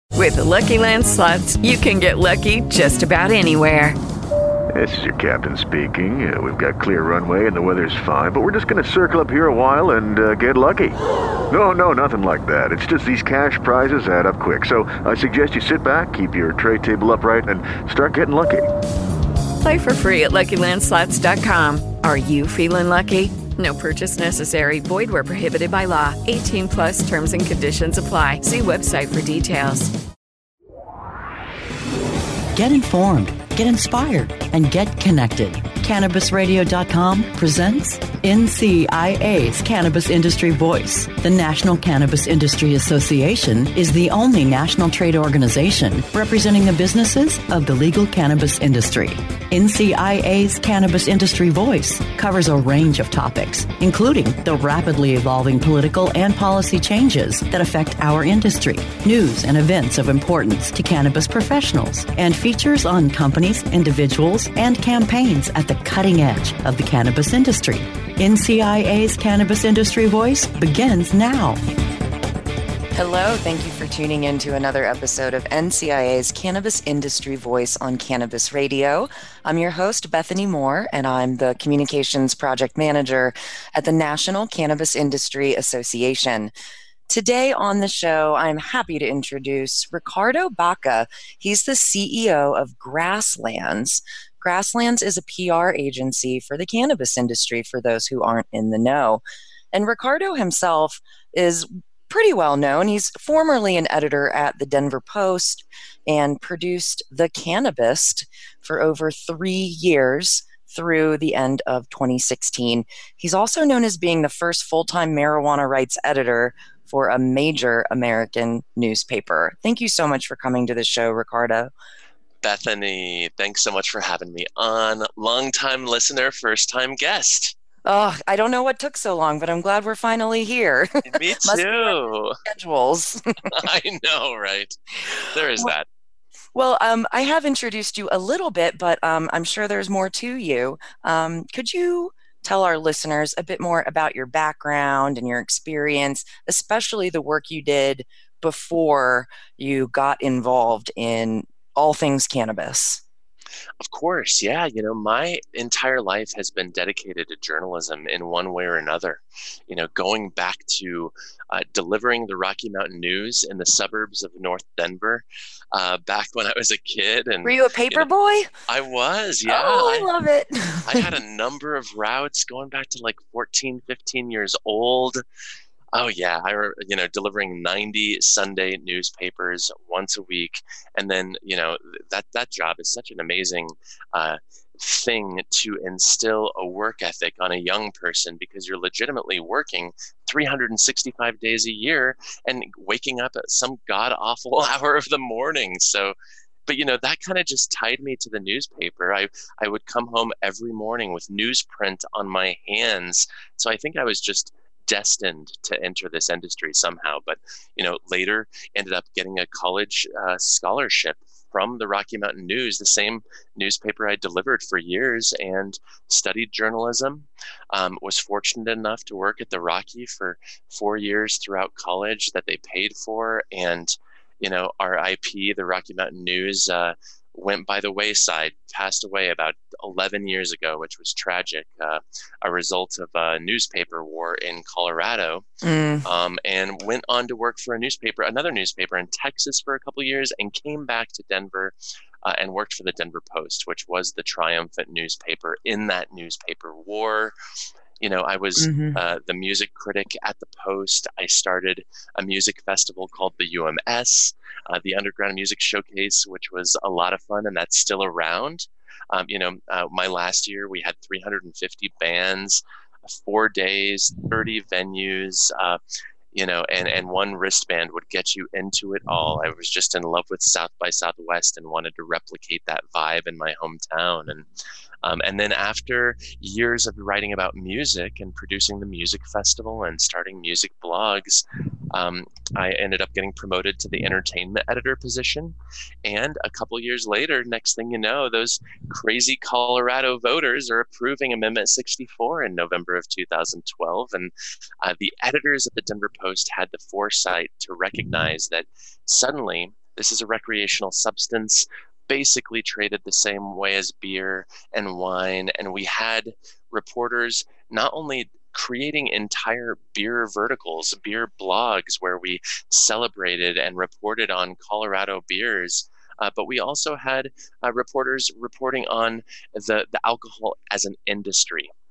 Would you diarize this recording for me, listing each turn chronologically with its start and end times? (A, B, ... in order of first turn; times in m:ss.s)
0:00.1-0:04.0 A
0:04.7-0:11.0 B
0:11.5-0:18.7 B
0:19.6-0:29.9 A
0:32.5-1:11.6 C
1:13.0-1:26.5 D
1:27.1-2:01.7 D
2:02.4-2:07.6 E
2:07.8-2:13.6 D
2:11.0-2:12.4 E
2:13.5-2:15.8 E
2:16.5-2:33.0 D
2:33.8-2:48.1 E
2:47.4-2:48.5 D
2:48.7-2:50.1 E
2:49.4-2:51.1 D
2:50.8-2:55.2 E
2:55.9-3:16.1 E
3:16.7-3:55.4 E
3:55.6-3:56.0 D
3:56.0-4:07.3 E
4:08.0-4:25.8 E
4:08.6-4:09.0 D
4:26.3-4:34.5 E
4:35.0-5:21.7 E